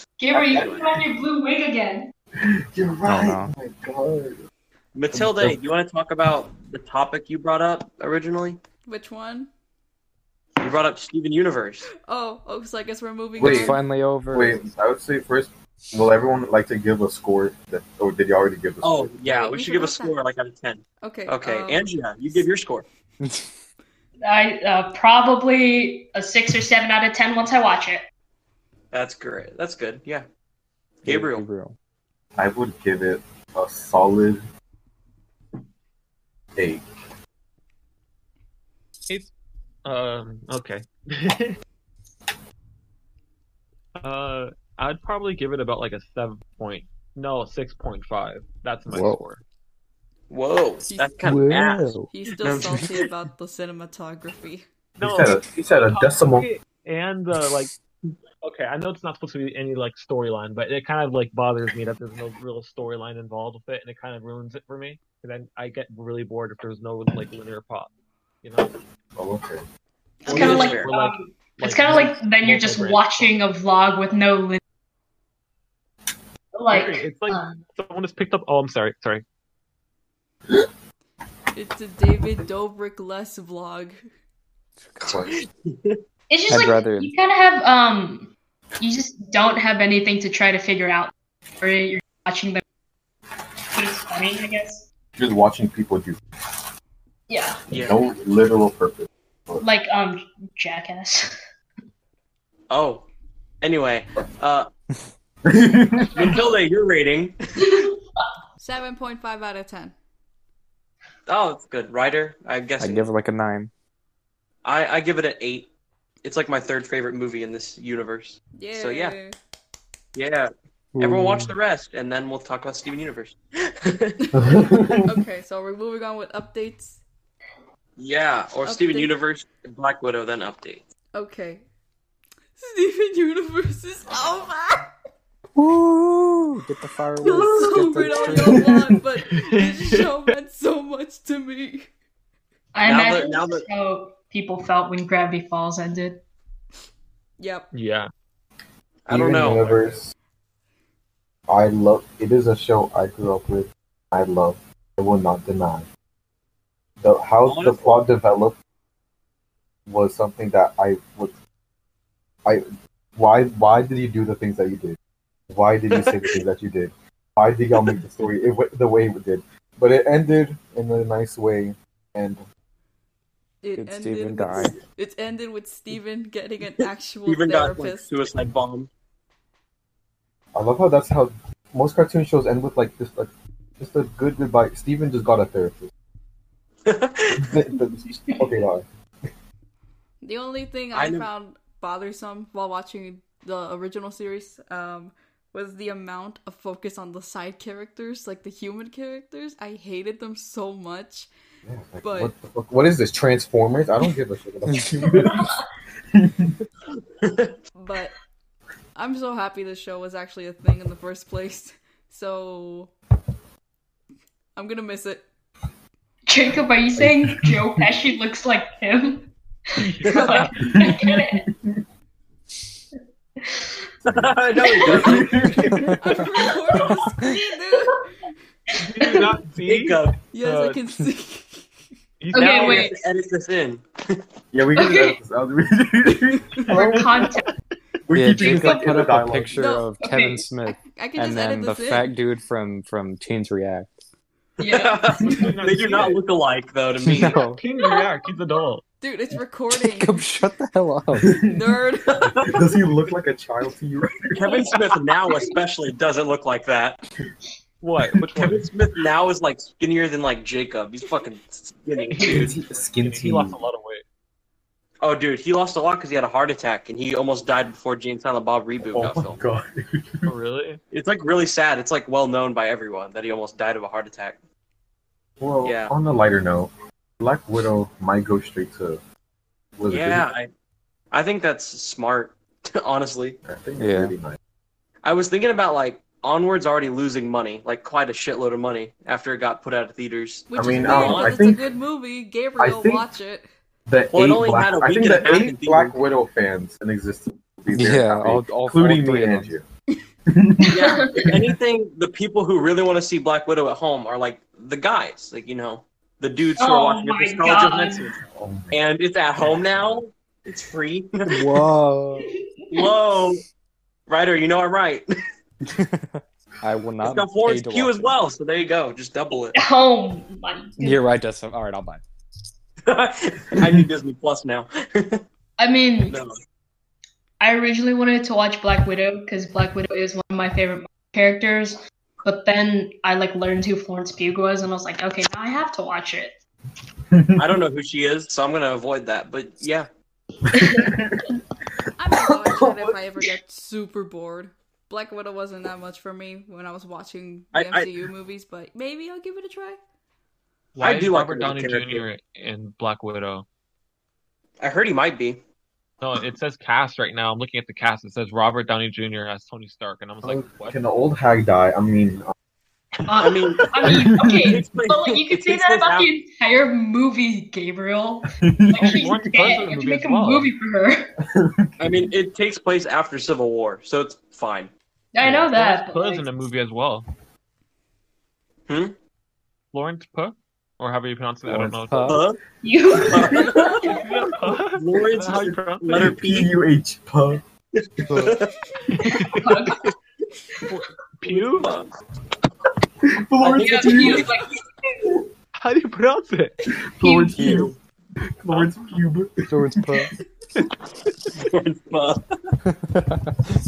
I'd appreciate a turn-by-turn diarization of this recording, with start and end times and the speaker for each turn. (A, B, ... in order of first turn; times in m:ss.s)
0:00.2-0:02.1 A
0:00.4-0:00.7 B
0:00.4-0:00.9 C
0:02.4-0:04.4 B
0:03.0-0:03.5 D
0:04.9-0:08.6 C
0:05.1-0:05.6 B
0:08.9-0:09.5 E
0:10.6-0:11.9 C
0:12.0-0:13.8 E
0:13.4-0:14.7 D
0:13.4-0:13.8 B
0:14.3-0:19.1 B
0:18.8-0:22.8 C
0:19.2-0:20.2 E
0:21.0-0:22.4 E
0:23.2-0:23.5 D
0:24.2-0:28.0 A
0:28.9-0:30.2 C
0:31.0-0:31.4 C
0:31.0-0:31.7 D
0:32.4-0:34.4 B
0:36.6-0:36.9 B
0:39.8-0:41.6 F
0:44.0-0:49.4 F
0:48.9-0:49.2 D
0:50.3-0:52.9 C
0:50.8-0:51.2 E
0:51.2-0:52.1 D
0:52.1-0:54.6 E
0:55.0-0:56.5 B
0:55.0-0:57.7 F
0:58.4-1:07.9 F
1:08.4-1:08.7 F
1:09.2-1:09.6 B
1:10.2-1:10.9 C
1:10.2-1:14.6 A
1:10.2-1:13.3 F
1:16.5-1:17.6 A
1:16.7-1:19.2 F
1:21.5-1:24.0 E
1:24.9-1:25.2 D
1:25.0-1:25.4 B
1:25.1-1:26.0 C
1:26.3-1:32.6 A
1:26.5-1:27.1 D
1:33.7-1:34.8 A
1:35.2-1:36.2 B
1:37.3-1:37.9 A
1:37.7-1:38.0 C
1:37.7-1:39.6 B
1:39.6-1:41.3 A
1:42.7-1:43.0 C
1:43.6-1:44.7 C
1:45.4-1:46.4 B
1:46.1-1:47.4 C
1:47.6-1:47.9 A
1:48.6-1:49.9 E
1:51.3-1:53.1 C
1:52.8-1:53.7 D
1:54.6-1:55.7 C
1:56.2-1:59.2 C
1:58.6-1:59.3 E
2:00.1-2:04.2 C
2:00.9-2:01.5 D
2:04.2-2:07.0 E
2:04.3-2:05.1 B
2:08.0-2:10.9 C
2:08.6-2:09.1 E
2:11.1-2:11.6 E
2:12.6-2:14.9 E
2:15.6-2:18.7 D
2:17.2-2:21.9 E
2:19.3-2:20.2 F
2:22.7-2:26.2 A
2:22.8-2:23.6 C
2:27.4-2:27.7 E
2:27.7-2:28.1 F
2:29.0-2:29.8 C
2:29.1-2:30.1 B
2:31.5-2:35.9 B
2:37.0-2:38.6 B
2:37.4-2:38.0 C
2:39.9-2:41.4 B
2:42.4-2:45.0 B
2:45.5-2:52.4 B
2:45.9-2:46.4 C
2:53.6-2:58.1 E
2:53.8-2:54.8 D
2:57.3-2:58.9 C
3:00.5-3:05.9 B
3:06.8-3:07.5 C
3:07.3-3:08.8 B
3:10.2-3:21.3 E
3:10.9-3:11.3 C
3:21.6-3:26.5 B
3:22.0-3:22.3 E
3:24.7-3:25.0 D
3:27.2-3:27.5 C
3:27.7-3:28.1 E
3:28.9-3:32.9 E
3:34.6-3:35.2 E
3:36.3-3:39.3 A
3:37.0-3:37.9 B
3:39.8-3:40.6 F
3:40.0-3:41.4 A
3:40.0-3:40.4 C
3:40.6-3:41.8 B
3:43.4-3:43.8 A
3:44.0-3:46.0 C
3:44.1-3:46.0 B
3:44.6-3:45.2 A
3:45.7-3:47.4 D
3:46.0-3:48.1 E
3:48.7-3:49.3 A
3:48.8-3:50.8 F
3:49.6-3:50.2 C
3:50.3-3:51.6 E
3:52.2-3:53.0 F
3:52.3-3:53.0 A
3:52.3-3:54.2 C
3:54.5-3:57.3 B
3:54.8-3:55.1 A
3:56.7-3:57.5 A
3:58.1-3:59.6 B
3:58.1-4:04.0 D
3:58.4-3:59.1 A
3:59.6-3:59.9 E
4:00.0-4:00.4 A
4:00.6-4:02.1 E
4:04.6-4:04.9 A
4:04.6-4:07.4 C
4:05.2-4:06.2 F
4:07.0-4:07.6 D
4:07.4-4:08.8 F
4:09.0-4:10.3 E
4:09.7-4:11.4 D
4:11.5-4:12.4 E
4:12.1-4:12.6 C
4:12.4-4:14.7 B
4:14.2-4:17.0 C
4:17.8-4:18.7 F
4:18.4-4:22.6 C
4:22.0-4:24.0 F
4:22.2-4:23.6 B
4:25.0-4:29.4 C
4:28.8-4:30.3 B
4:30.2-4:30.8 F
4:30.9-4:34.4 C
4:35.4-4:39.0 B
4:35.6-4:35.9 C
4:39.8-4:40.3 B
4:39.9-4:40.5 C
4:41.1-4:43.4 C
4:43.4-4:44.4 B
4:43.8-4:44.1 D
4:45.0-4:51.4 C
4:50.5-4:53.4 E
4:50.5-4:51.7 B
4:52.6-4:53.1 B
4:53.9-4:59.6 B
4:54.1-4:56.0 C
4:57.7-4:59.5 D
5:00.3-5:01.6 B
5:00.6-5:01.2 A
5:00.7-5:11.5 C
5:06.6-5:08.0 A
5:08.2-5:08.8 B
5:11.3-5:12.3 D
5:12.7-5:13.4 C
5:14.1-5:15.1 C
5:15.6-5:18.1 D
5:17.0-5:19.6 C
5:19.5-5:21.0 A
5:20.8-5:22.0 D
5:22.8-5:25.2 C
5:25.6-5:26.2 A
5:26.1-5:26.3 C
5:27.4-5:36.4 A
5:37.1-5:37.5 B
5:37.4-5:39.9 C
5:40.5-5:41.4 B
5:40.5-5:40.9 A
5:42.0-5:49.8 E
5:42.1-5:43.0 B
5:47.5-5:47.9 C
5:50.7-5:53.4 F
5:50.8-5:52.0 C
5:54.6-5:55.4 C
5:56.0-6:00.8 F
6:00.2-6:02.3 B
6:03.0-6:11.1 A
6:03.2-6:06.1 C
6:03.2-6:04.6 B
6:08.4-6:09.6 B
6:08.8-6:10.5 F
6:11.2-6:12.1 B
6:11.8-6:14.7 C
6:15.1-6:16.3 A
6:15.5-6:17.1 F
6:18.7-6:19.0 C
6:19.7-6:22.2 F
6:21.5-6:22.2 D
6:22.0-6:22.4 C
6:22.6-6:24.0 A
6:23.0-6:24.0 C
6:23.2-6:23.6 B
6:23.9-6:26.2 F
6:24.8-6:26.5 C
6:26.0-6:27.4 B
6:27.8-6:28.5 C
6:28.1-6:28.4 D
6:28.9-6:29.7 F
6:29.3-6:29.8 A
6:30.7-6:31.7 F
6:31.4-6:31.9 C
6:33.0-6:34.3 B
6:33.4-6:34.6 C
6:33.5-6:34.5 A
6:35.5-6:36.6 F
6:36.7-6:37.7 B
6:37.0-6:37.7 A
6:37.4-6:37.7 C
6:37.4-6:37.7 D
6:38.4-6:40.0 B
6:39.5-6:40.1 D
6:41.3-6:42.2 C
6:42.6-6:43.4 D